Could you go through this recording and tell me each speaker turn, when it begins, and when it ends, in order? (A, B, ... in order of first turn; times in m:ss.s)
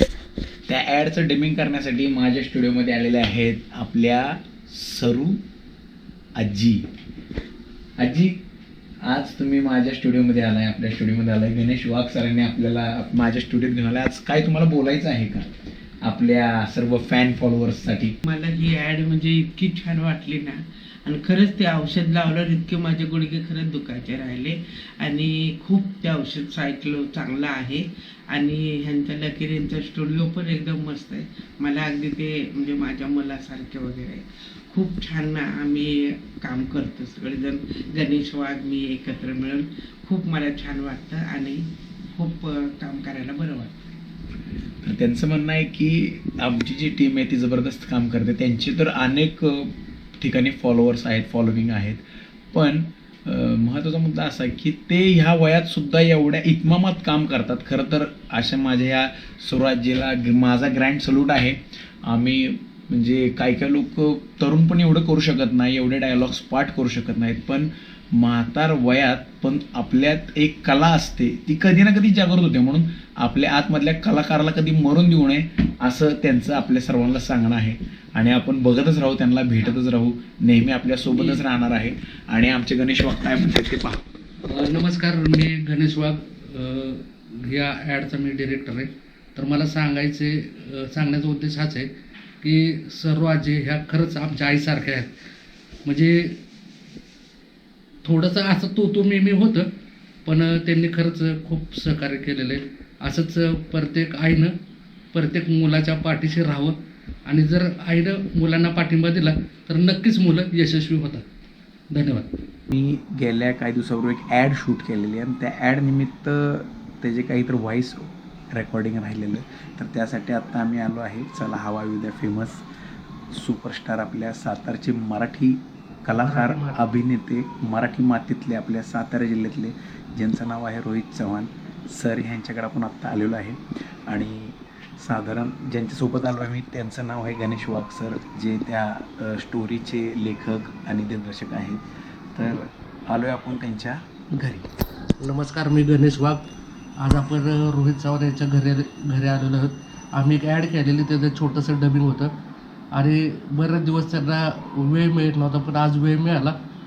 0:00.7-0:05.4 A
0:06.4-0:06.9 A
0:08.0-0:08.4 A
0:09.0-0:15.5 A
0:16.0-0:18.2 A
0:18.2-0:43.7 B
0:44.8-1:24.0 A
1:24.5-1:31.9 C
1:32.4-1:35.1 C
1:35.8-1:36.4 C
1:38.0-1:39.7 C
1:40.3-1:44.5 C
1:45.1-1:51.2 C
1:51.9-1:52.3 C
1:52.7-2:02.6 A
2:03.3-2:21.8 A
2:06.2-2:06.9 C
2:22.4-2:24.7 A
2:25.2-2:26.5 C
2:27.0-2:32.3 C
2:32.9-2:36.6 C